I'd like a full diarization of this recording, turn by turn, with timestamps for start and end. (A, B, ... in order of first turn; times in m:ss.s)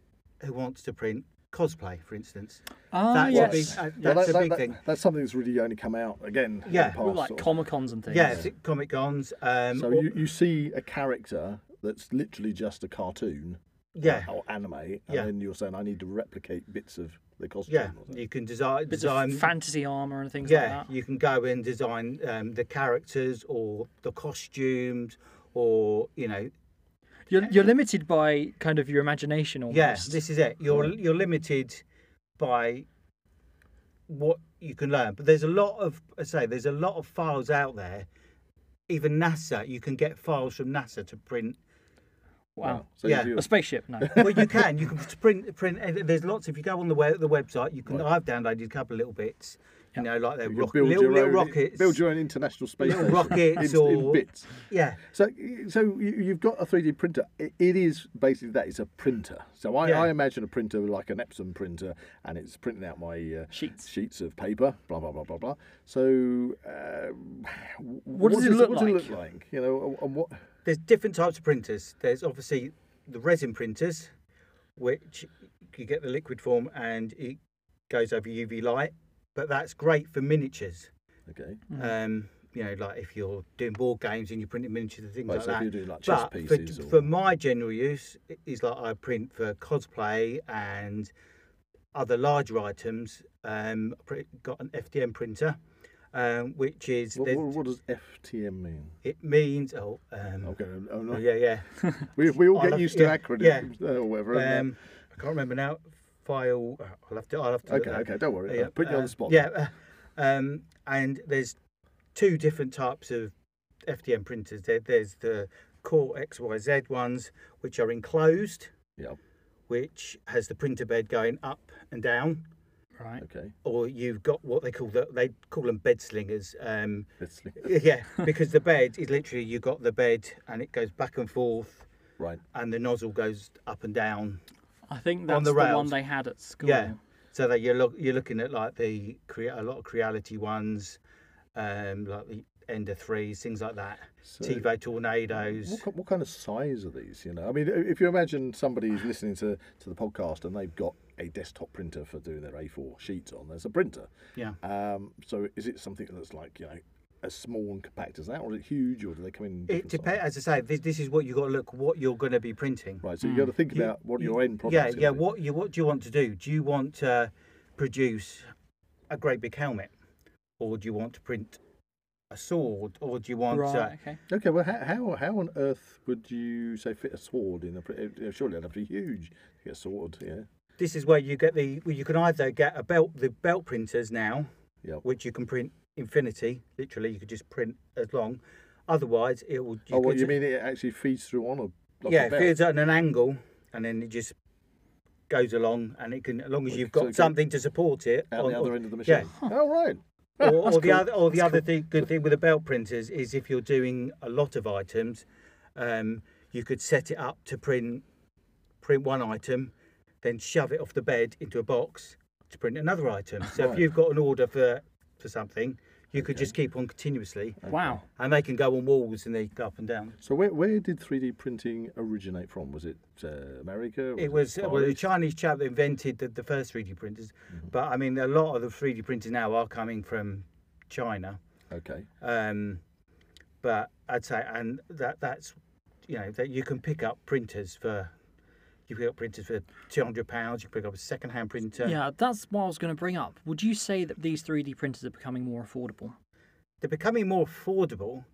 0:00.4-0:04.8 A
0:02.9-0:03.8 B
0:03.3-0:07.6 C
0:06.7-0:07.0 A
0:06.9-0:08.4 B
0:08.1-0:10.1 A
0:08.2-0:08.5 C
0:09.7-0:18.2 C
0:14.0-0:14.3 A
0:17.7-0:19.5 A
0:18.9-0:20.9 B
0:20.4-0:26.5 A
0:27.3-0:30.2 B
0:29.7-0:31.8 A
0:30.7-0:30.9 C
0:32.4-0:32.9 A
0:34.1-0:38.1 A
0:38.9-0:41.6 A
0:42.6-0:44.3 B
0:42.6-0:43.5 C
0:43.0-0:43.3 A
0:44.0-0:44.6 C
0:44.1-0:52.0 A
0:50.4-1:10.4 C
0:52.8-0:55.0 A
1:03.5-1:03.8 B
1:08.1-1:09.1 B
1:10.7-1:14.1 A
1:14.8-1:20.9 A
1:21.3-1:21.6 C
1:21.7-1:31.1 A
1:25.3-1:27.1 C
1:31.9-1:35.6 A
1:36.1-1:37.5 A
1:37.2-1:39.0 C
1:39.0-1:40.6 A
1:40.4-1:41.3 C
1:41.1-1:43.7 A
1:42.0-1:44.7 C
1:44.3-1:51.6 A
1:47.7-1:49.4 C
1:52.2-1:53.3 A
1:53.8-1:58.7 A
1:59.7-2:02.4 A
2:03.2-2:03.5 C
2:03.6-2:11.9 A
2:07.2-2:07.7 C
2:12.5-2:14.4 A
2:14.9-2:17.0 B
2:15.3-2:16.0 A
2:16.6-2:21.0 A
2:21.6-2:25.8 A
2:24.3-2:24.7 C
2:25.3-2:40.2 C
2:39.7-2:43.0 A
2:43.0-2:45.2 C
2:43.2-2:43.5 B
2:43.7-2:48.5 A
2:49.1-2:49.9 A
2:50.6-2:51.6 A
2:52.3-2:53.9 A
2:53.5-2:54.2 B
2:54.3-3:00.5 C
3:00.8-3:04.5 A
3:05.0-3:10.4 A
3:09.9-3:12.6 C
3:12.1-3:14.4 A
3:15.3-3:19.3 A
3:16.7-3:17.4 C
3:18.3-3:21.6 C
3:20.4-3:25.2 A
3:25.8-3:28.0 A
3:28.8-3:37.6 A
3:33.5-3:33.9 C
3:36.1-3:36.5 C
3:37.6-3:38.0 C
3:37.7-3:38.0 B
3:38.2-3:40.2 A
3:40.2-3:45.0 C
3:44.2-3:51.4 A
3:51.7-3:52.1 C
3:52.2-3:52.8 A
3:53.6-3:58.1 A
3:58.9-4:02.0 A
4:01.8-4:06.2 B
4:06.8-4:08.2 A